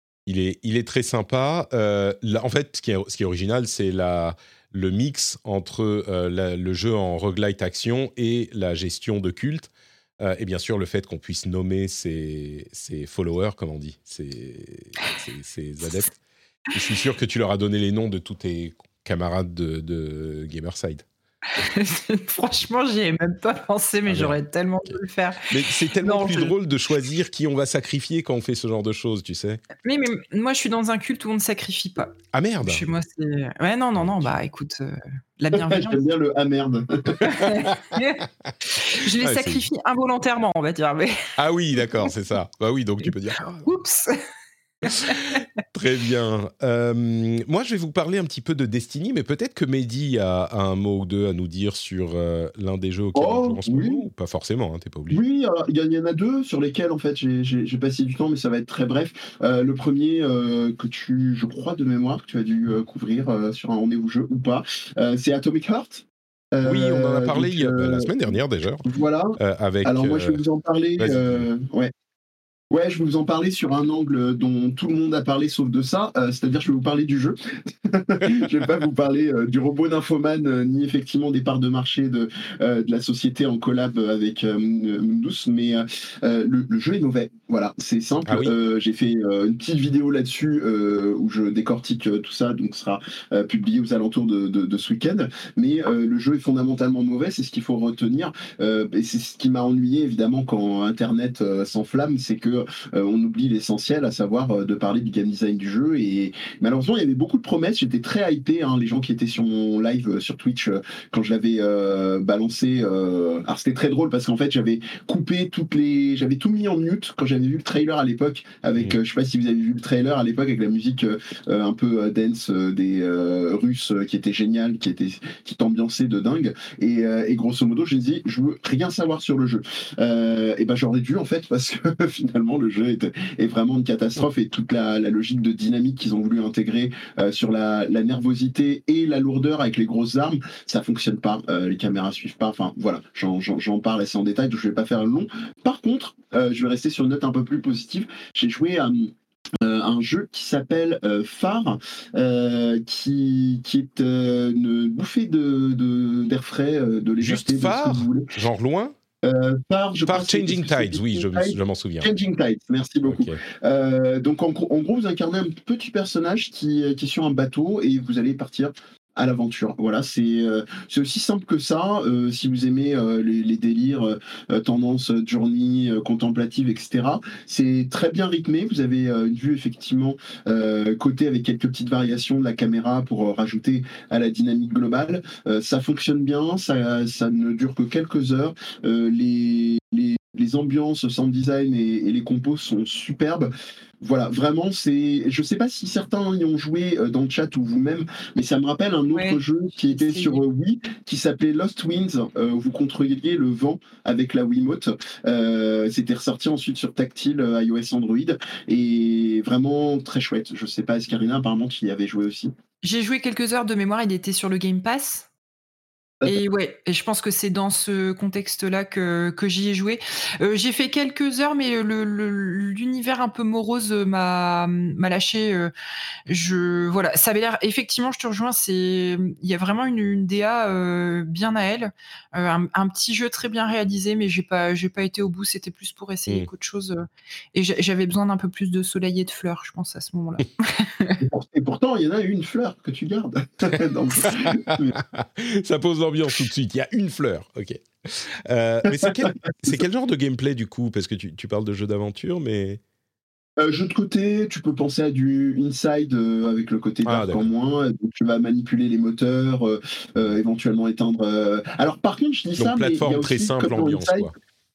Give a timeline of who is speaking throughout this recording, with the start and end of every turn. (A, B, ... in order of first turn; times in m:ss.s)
0:00.3-0:16.2 A
0:16.7-0:21.0 A
0:21.6-0:25.4 B
0:24.0-0:24.4 A
0:25.5-0:29.6 A
0:26.0-0:26.5 B
0:29.8-0:36.0 B
0:32.3-0:32.9 A
0:33.9-0:34.3 A
0:35.5-0:37.3 C
0:37.2-0:41.1 B
0:37.2-0:38.5 A
0:39.2-0:39.7 A
0:41.4-0:43.8 A
0:43.6-0:44.2 B
0:44.8-0:45.4 B
0:44.9-0:55.2 A
0:53.1-0:54.0 C
0:55.1-1:08.3 C
1:06.6-1:10.4 A
1:08.8-1:11.9 C
1:11.0-1:11.5 A
1:12.7-2:38.3 C
1:28.2-1:28.5 A
2:37.2-2:39.0 A
2:39.2-3:13.5 C
2:40.0-2:42.1 A
2:43.0-2:43.4 A
3:14.0-3:32.5 C
3:19.1-3:19.4 B
3:19.9-3:20.4 B
3:32.8-3:35.3 B
3:36.3-3:45.7 B
3:46.3-4:01.2 B
4:01.2-4:05.0 C
4:04.2-4:12.8 A
4:13.6-4:24.3 C
4:17.0-4:17.5 A
4:22.6-4:24.3 A